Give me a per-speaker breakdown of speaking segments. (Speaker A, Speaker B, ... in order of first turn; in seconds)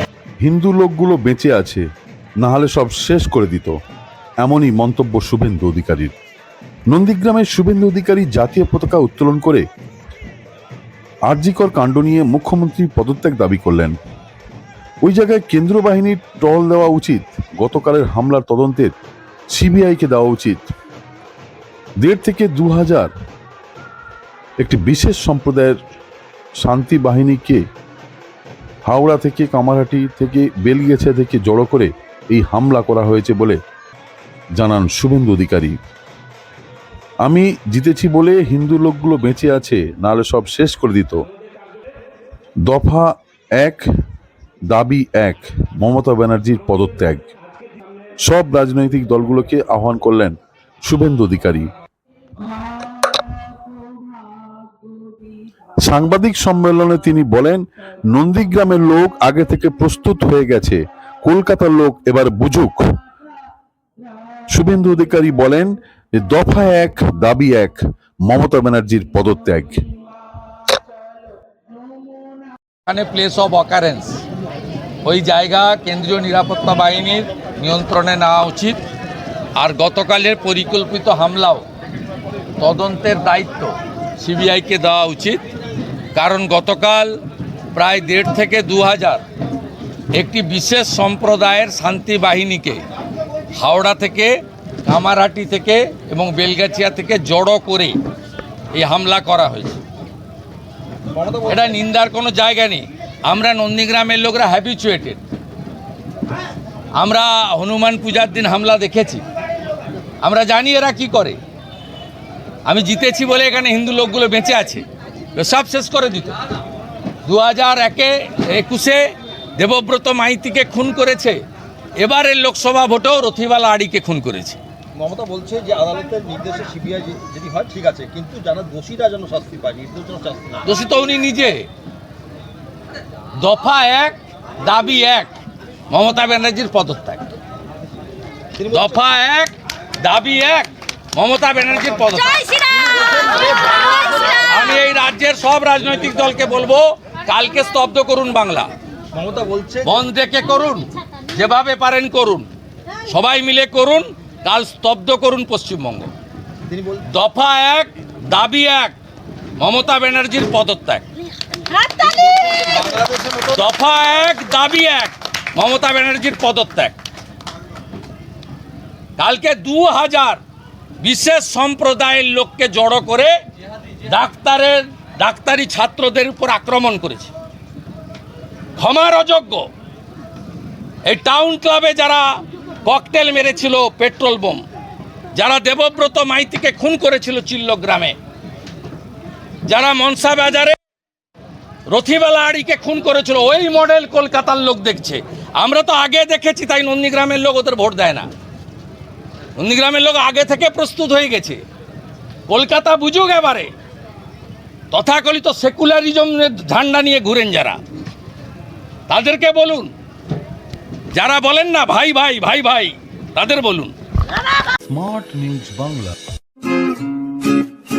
Speaker A: 0.4-1.8, 2.4-3.8, 4.4-6.1, 6.9-9.6, 11.3-13.9, 15.0-18.9, 19.5-20.7, 22.0-23.1, 24.6-25.8, 26.6-27.6, 28.9-33.6, 34.5-35.8, 37.2-41.2, 42.6-43.9, 44.7-47.3, 48.2-51.7, 55.8-62.8, 64.5-69.8, 214.9-216.2
Speaker B: 72.9-74.2, 75.0-78.8, 79.5-81.7, 82.6-85.4, 86.1-87.2, 87.7-89.2, 90.1-92.8, 93.5-94.3, 94.8-98.0, 98.7-99.8, 101.5-105.2, 106.9-109.2, 110.2-111.4, 112.6-116.4, 117.2-121.4, 122.0-124.6, 130.6-131.7, 133.4-135.3, 135.9-137.2, 138.7-142.7, 144.2-148.7, 149.8-152.5, 153.0-156.1, 157.1-158.9, 159.6-161.1, 163.5-167.0, 169.2-170.4, 171.0-173.3, 174.0-177.3, 178.8-179.7, 181.0-184.6, 185.3-188.2, 189.6-190.8, 191.9-198.3, 199.6-201.6, 202.5-203.7, 204.9-207.8, 209.1-209.9, 211.1-213.9
Speaker C: 101.1-101.7, 125.0-130.6, 138.6-138.9, 142.7-144.3, 149.1-150.0, 156.7-157.0, 161.9-163.6